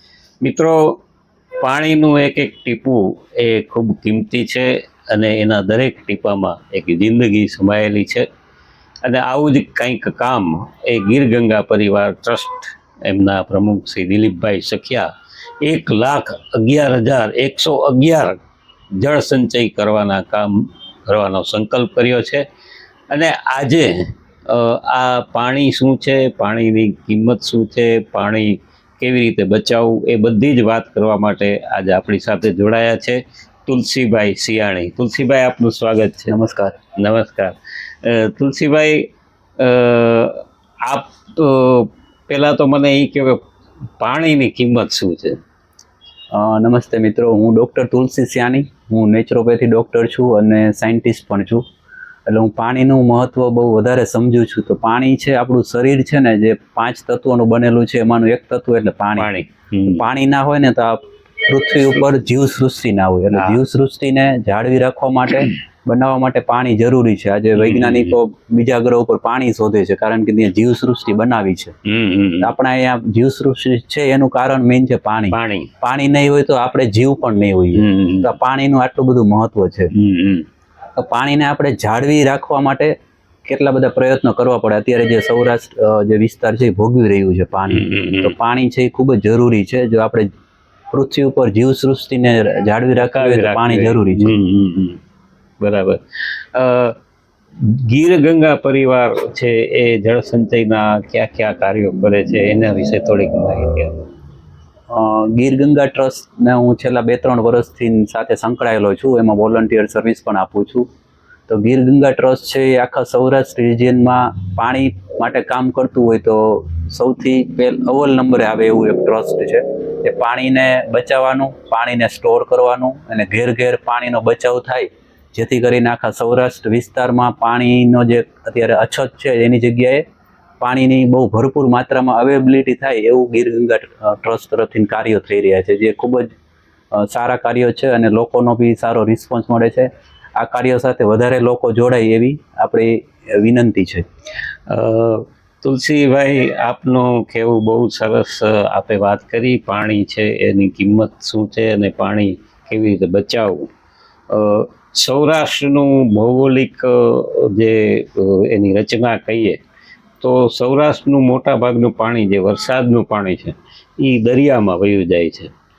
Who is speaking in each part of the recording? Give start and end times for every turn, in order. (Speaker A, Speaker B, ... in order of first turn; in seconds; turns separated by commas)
Speaker A: 0.4-1.0, Speaker A: 1.6-8.3, Speaker A: 9.0-15.1, Speaker A: 15.6-18.4, Speaker A: 19.0-22.5, Speaker A: 23.1-36.3, Speaker B: 36.3-36.8, Speaker A: 37.0-39.1, Speaker A: 39.6-43.4, Speaker A: 44.0-45.4, Speaker B: 46.3-51.6, Speaker B: 52.3-59.3, Speaker A: 59.2-60.0, Speaker B: 59.9-71.7, Speaker A: 67.6-68.2, Speaker A: 71.8-72.5, Speaker B: 72.4-79.9, Speaker A: 75.3-75.7, Speaker A: 77.7-78.3, Speaker A: 79.9-80.5, Speaker B: 81.0-90.3, Speaker A: 87.7-88.4, Speaker B: 90.9-94.3, Speaker A: 93.0-95.0, Speaker A: 95.6-97.0, Speaker A: 97.6-104.1, Speaker B: 104.9-110.9, Speaker B: 111.5-130.0, Speaker B: 130.6-136.3, Speaker B: 136.9-144.1, Speaker A: 144.7-153.7, Speaker A: 154.3-159.6, Speaker A: 160.2-165.5